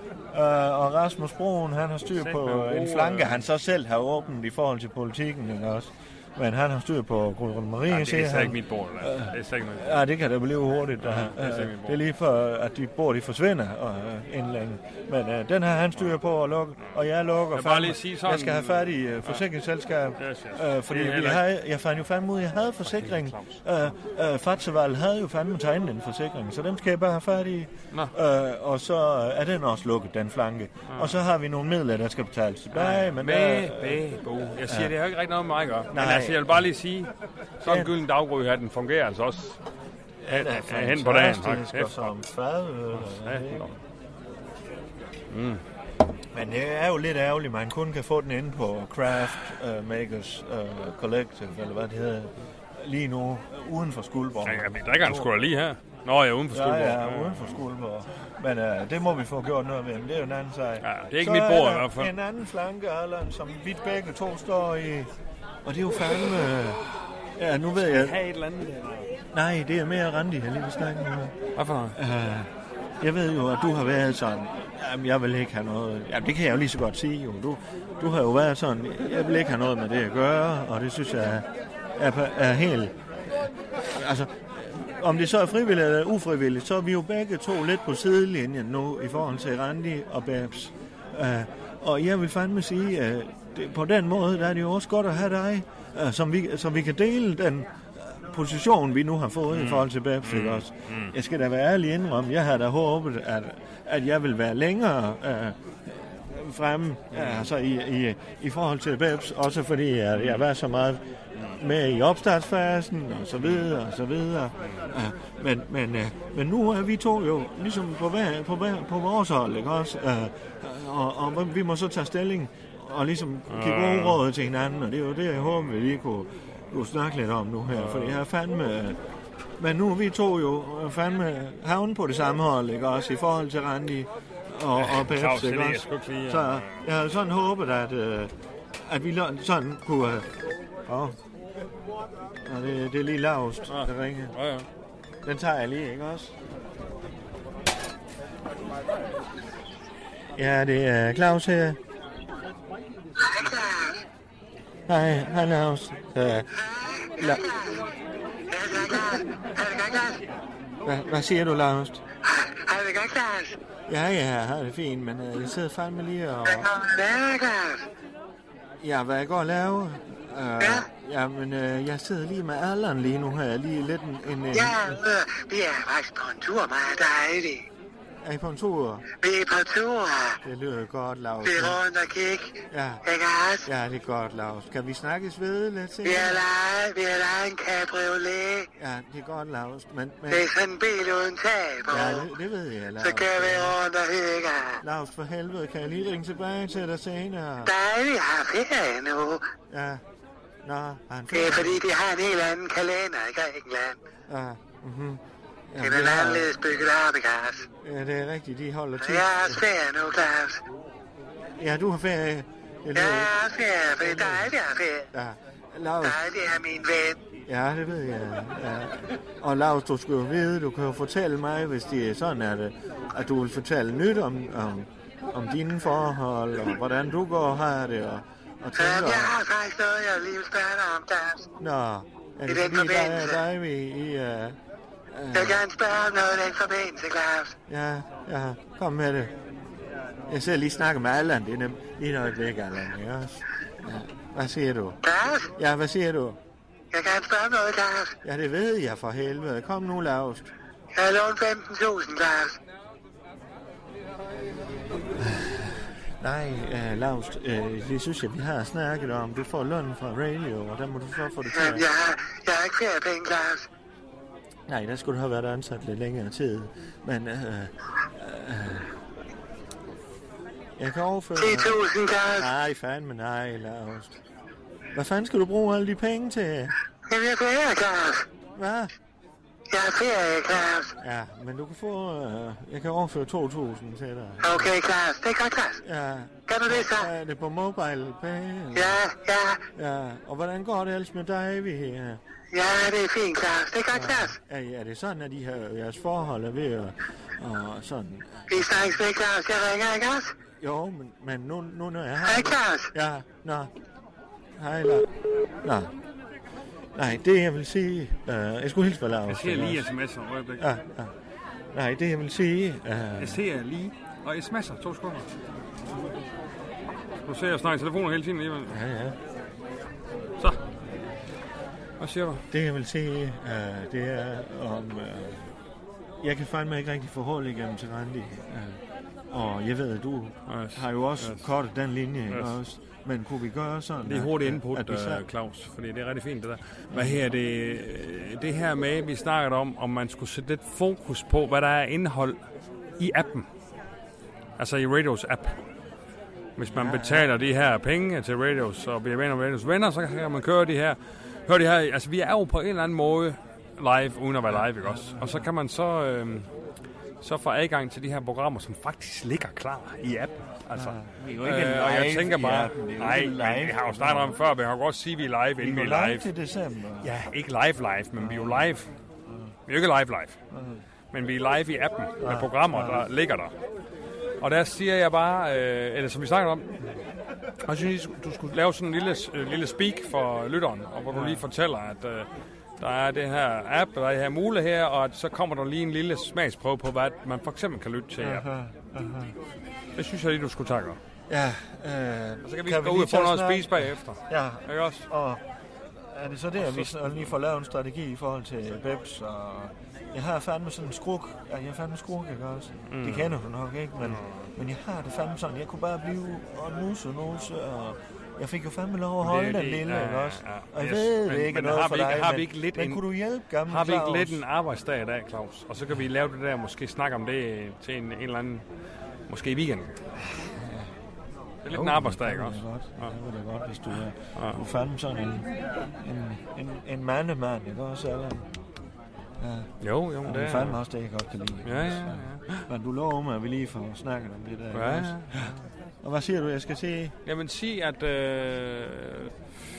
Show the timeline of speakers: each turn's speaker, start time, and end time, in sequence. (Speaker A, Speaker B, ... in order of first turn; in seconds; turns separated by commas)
Speaker A: 0.3-34.1, Speaker B: 2.1-3.5, Speaker B: 7.9-10.1, Speaker B: 11.0-12.0, Speaker B: 17.5-19.4, Speaker B: 20.2-21.4, Speaker B: 22.8-23.6, Speaker B: 30.9-31.1, Speaker B: 32.7-39.6, Speaker A: 34.6-34.9, Speaker A: 35.9-36.6, Speaker A: 37.6-37.9, Speaker A: 40.2-43.8, Speaker B: 40.3-42.1, Speaker B: 42.9-43.7, Speaker B: 45.3-45.6, Speaker A: 46.3-55.3, Speaker B: 54.4-57.6, Speaker A: 56.5-65.1, Speaker B: 60.8-62.1, Speaker A: 65.6-66.8, Speaker A: 67.4-68.2, Speaker B: 67.8-69.1, Speaker A: 69.3-71.3, Speaker B: 71.5-72.0, Speaker A: 71.9-83.0, Speaker A: 83.8-111.0, Speaker B: 99.5-101.1, Speaker B: 107.1-107.5, Speaker B: 110.2-110.5, Speaker A: 111.5-129.0, Speaker B: 113.4-113.7, Speaker B: 114.6-114.9, Speaker B: 123.5-124.2, Speaker B: 127.7-128.2, Speaker A: 129.6-140.3, Speaker B: 134.8-136.8, Speaker A: 140.9-141.2, Speaker A: 142.4-144.4, Speaker B: 143.7-144.7, Speaker A: 145.2-146.3, Speaker A: 150.3-151.8, Speaker C: 153.2-154.0, Speaker A: 154.9-156.5, Speaker C: 156.5-157.8, Speaker C: 158.5-160.2, Speaker A: 160.8-162.0, Speaker C: 162.2-163.6, Speaker A: 163.9-166.7, Speaker C: 166.5-167.9, Speaker A: 168.8-175.0, Speaker C: 174.5-177.6, Speaker A: 178.2-179.1, Speaker C: 179.1-180.4, Speaker A: 180.4-181.8, Speaker C: 181.4-183.7, Speaker A: 182.7-183.0, Speaker A: 183.6-186.4, Speaker C: 186.0-188.7, Speaker A: 188.8-190.5, Speaker C: 190.3-192.3, Speaker A: 191.9-193.8, Speaker C: 193.0-194.8, Speaker A: 194.8-197.7, Speaker C: 197.7-199.5, Speaker A: 199.7-200.0, Speaker A: 200.6-201.8, Speaker C: 201.3-204.0, Speaker A: 204.3-206.6, Speaker C: 205.8-207.7, Speaker A: 207.8-209.6, Speaker C: 209.0-210.6, Speaker A: 211.6-213.3, Speaker C: 212.9-215.1, Speaker A: 214.0-214.5, Speaker A: 215.1-216.2, Speaker C: 216.0-217.2, Speaker A: 217.4-229.4, Speaker C: 228.8-231.5, Speaker A: 231.6-234.6, Speaker C: 232.5-233.4, Speaker A: 235.1-235.6, Speaker C: 235.3-237.6, Speaker A: 237.7-239.3, Speaker A: 240.3-245.0, Speaker C: 245.0-245.5, Speaker A: 245.6-246.4, Speaker C: 246.9-248.2, Speaker A: 248.2-250.5, Speaker C: 250.9-252.6, Speaker A: 255.2-261.9, Speaker C: 261.5-263.7, Speaker A: 264.7-268.9, Speaker A: 270.8-274.2, Speaker C: 271.4-272.5, Speaker A: 274.9-276.7, Speaker C: 277.1-278.3, Speaker A: 278.6-278.9, Speaker C: 279.7-280.9, Speaker A: 281.0-284.7, Speaker C: 284.4-285.8, Speaker A: 285.8-289.0, Speaker C: 286.5-287.1, Speaker C: 288.8-289.6, Speaker A: 289.7-292.2, Speaker C: 292.5-294.3, Speaker A: 293.9-299.0, Speaker C: 298.5-300.3, Speaker A: 300.6-303.7, Speaker C: 302.2-302.9, Speaker A: 304.6-305.1, Speaker A: 305.6-305.9, Speaker A: 306.9-309.9, Speaker B: 309.3-310.6, Speaker A: 310.6-311.1, Speaker A: 311.7-313.4, Speaker B: 313.2-315.3, Speaker B: 317.2-318.8, Speaker A: 318.7-319.2, Speaker B: 322.0-322.4, Speaker A: 322.5-325.5, Speaker A: 326.2-335.2, Speaker B: 330.5-331.4, Speaker B: 332.3-332.6, Speaker B: 334.0-342.4, Speaker A: 336.9-337.2, Speaker B: 343.0-343.5, Speaker B: 344.6-345.6, Speaker B: 346.6-356.5, Speaker A: 346.6-347.3, Speaker A: 354.5-355.5, Speaker B: 357.2-366.3, Speaker A: 360.7-364.4, Speaker A: 365.6-367.1, Speaker B: 367.0-368.9, Speaker A: 368.2-368.7, Speaker A: 369.3-369.5, Speaker B: 369.7-370.4, Speaker A: 370.5-370.8, Speaker B: 371.1-373.5, Speaker A: 372.2-373.1, Speaker B: 374.4-376.7, Speaker B: 377.6-382.3, Speaker A: 381.1-381.4, Speaker B: 382.8-388.4, Speaker A: 388.2-389.3, Speaker B: 389.9-391.0, Speaker A: 391.3-395.4, Speaker B: 392.4-395.1, Speaker A: 396.0-414.4, Speaker B: 396.6-397.3, Speaker B: 402.9-403.4, Speaker B: 404.0-404.5, Speaker B: 409.2-413.0, Speaker B: 413.7-418.6, Speaker B: 419.3-419.9, Speaker A: 420.4-420.9, Speaker B: 421.6-423.1, Speaker A: 421.7-428.5, Speaker B: 424.4-424.6, Speaker A: 429.4-429.7, Speaker B: 429.8-430.8, Speaker A: 430.2-437.1, Speaker B: 431.6-432.7, Speaker B: 434.7-435.6, Speaker B: 437.2-439.3